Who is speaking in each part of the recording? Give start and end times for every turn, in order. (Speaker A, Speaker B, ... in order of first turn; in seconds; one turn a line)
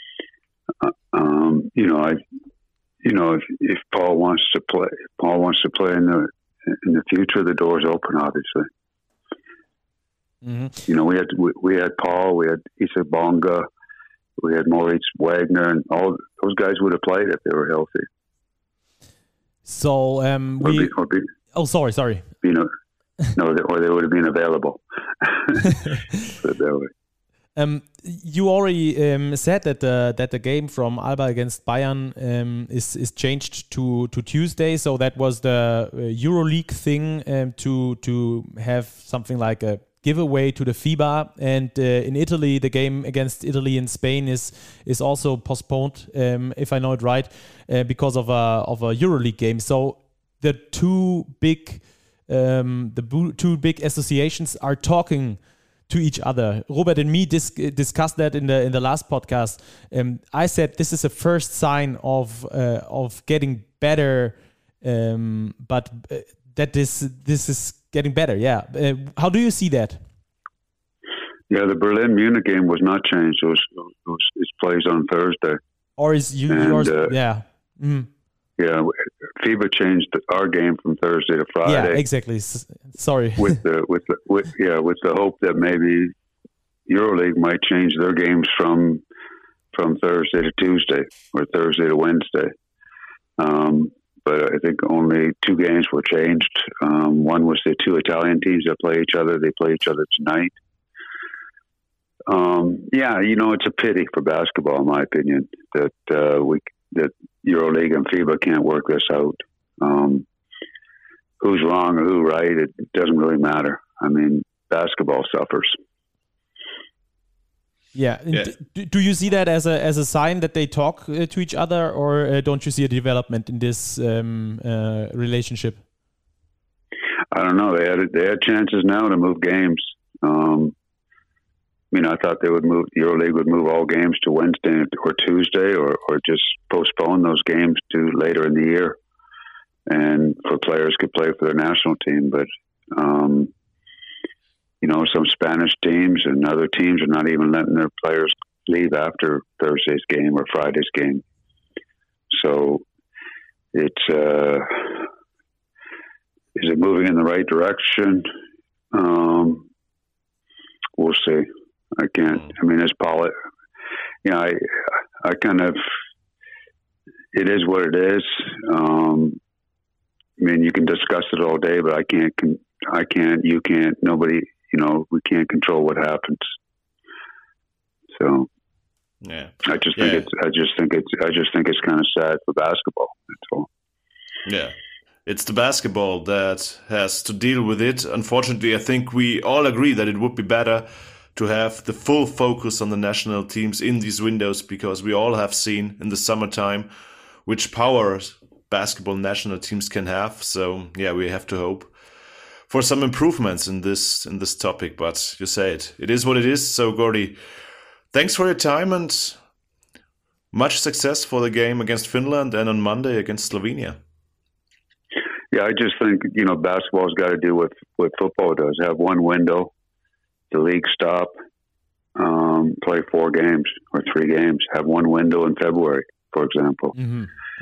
Speaker A: 0.8-2.2
Speaker A: 3.0-8.7
Speaker B: 10.4-10.7
Speaker A: 10.9-13.7
Speaker A: 14.4-18.1
Speaker B: 19.6-20.9
Speaker A: 20.6-21.2
Speaker B: 21.5-22.3
Speaker A: 22.4-22.7
Speaker A: 23.4-25.7
Speaker A: 26.3-26.9
Speaker B: 27.6-70.0
Speaker A: 71.5-75.6
Speaker B: 76.0-78.1
Speaker A: 76.5-77.1
Speaker A: 78.6-82.0
Speaker B: 81.7-83.6
Speaker A: 83.4-86.1
Speaker A: 86.9-89.0
Speaker A: 89.7-92.5
Speaker A: 93.4-100.5
Speaker A: 102.3-110.2
Speaker A: 111.4-115.8
Speaker B: 117.9-125.8
Speaker A: 127.3-130.7
Speaker A: 131.9-139.0
Speaker A: 139.9-143.5
Speaker A: 144.8-151.2
Speaker A: 152.3-152.8
Speaker A: 153.7-155.1
Speaker A: 156.5-158.2
Speaker A: 158.9-159.7
Speaker A: 160.9-163.3
Speaker A: 164.2-165.8
Speaker A: 167.3-169.4
Speaker A: 170.4-176.4
Speaker A: 178.1-178.5
Speaker C: 179.2-180.3
Speaker A: 179.6-183.7
Speaker C: 184.4-196.9
Speaker C: 197.4-201.9
Speaker C: 202.7-207.4
Speaker C: 208.1-209.4
Speaker C: 210.5-214.0
Speaker A: 215.5-219.7
Speaker A: 220.5-221.3
Speaker A: 222.2-226.9
Speaker B: 227.0-227.3